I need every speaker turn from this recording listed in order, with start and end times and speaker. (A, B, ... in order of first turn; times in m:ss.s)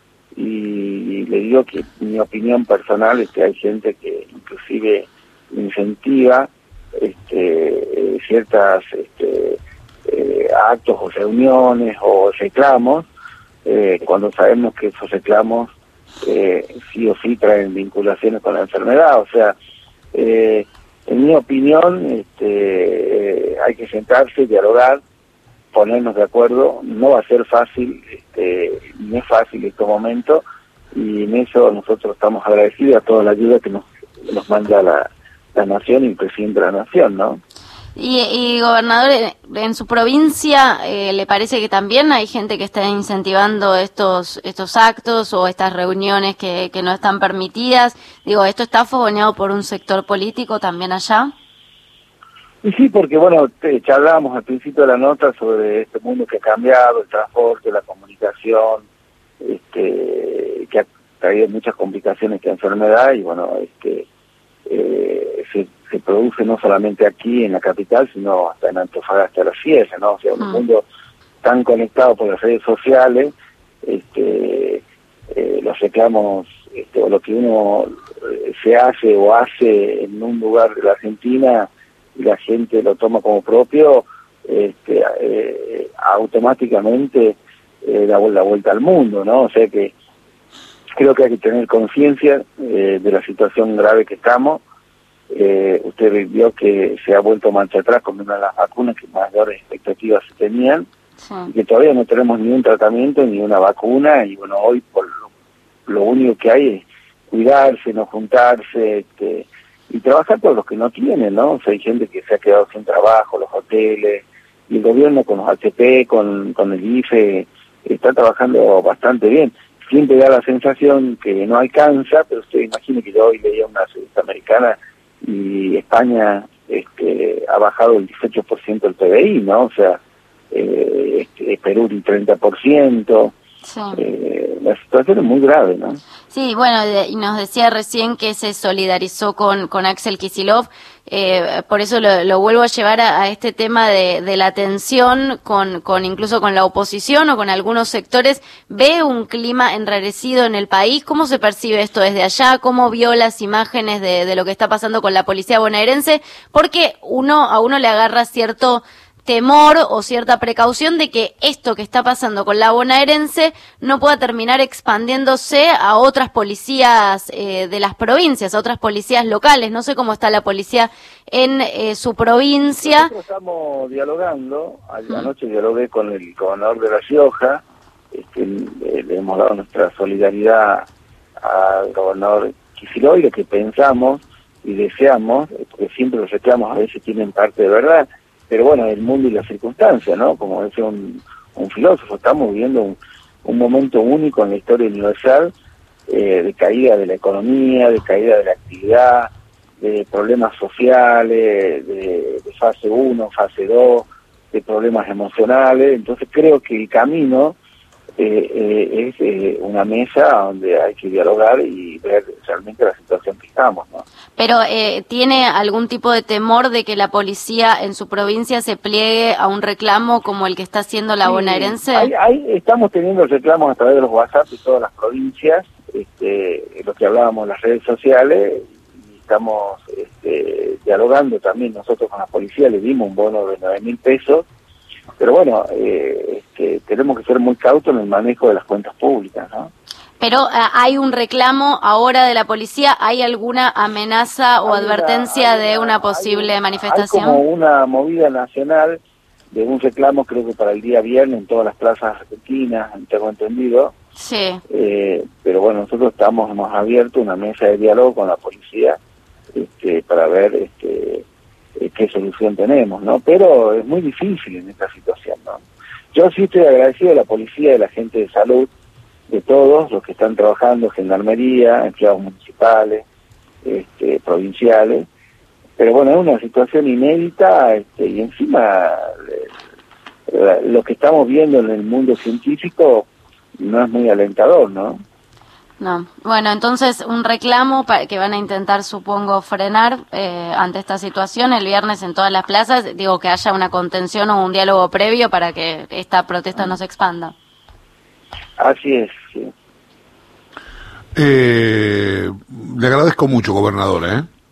0:00.3-0:13.1 A
0:13.6-0:19.5 A
0:20.1-0:25.0 A
0:25.7-0:37.4 A
0:38.0-0:51.3 B
0:52.6-0:58.8 A
0:59.4-1:04.1 A
1:04.7-1:10.8 A
1:11.4-1:13.3 A
1:13.8-1:29.9 A
1:31.0-1:34.6 A
1:35.3-1:40.9 A
1:41.2-1:41.5 B
1:41.5-1:45.2 A
1:45.9-2:10.0 A
2:10.5-2:13.3 A
2:13.6-2:14.0 B
2:13.9-2:16.0 A
2:16.3-2:53.1 B
2:52.8-3:00.9 A
3:01.4-3:15.5 A
3:16.1-3:27.6 A
3:28.2-3:34.0 A
3:34.4-3:42.1 B
3:41.2-3:54.4 A
3:55.2-3:59.7 A
4:00.2-4:07.4 B
4:04.6-4:09.0 A
4:09.5-4:13.9 A
4:14.2-4:14.6 B
4:14.7-4:19.0 A
4:19.5-4:21.2 A
4:21.8-4:28.7 A
4:29.3-4:33.0 A
4:33.6-4:35.1 A
4:35.8-4:39.5 A
4:40.3-4:43.1 A
4:43.6-4:45.0 A
4:45.8-4:57.3 B
4:58.6-4:59.5 A
5:01.1-5:04.3 C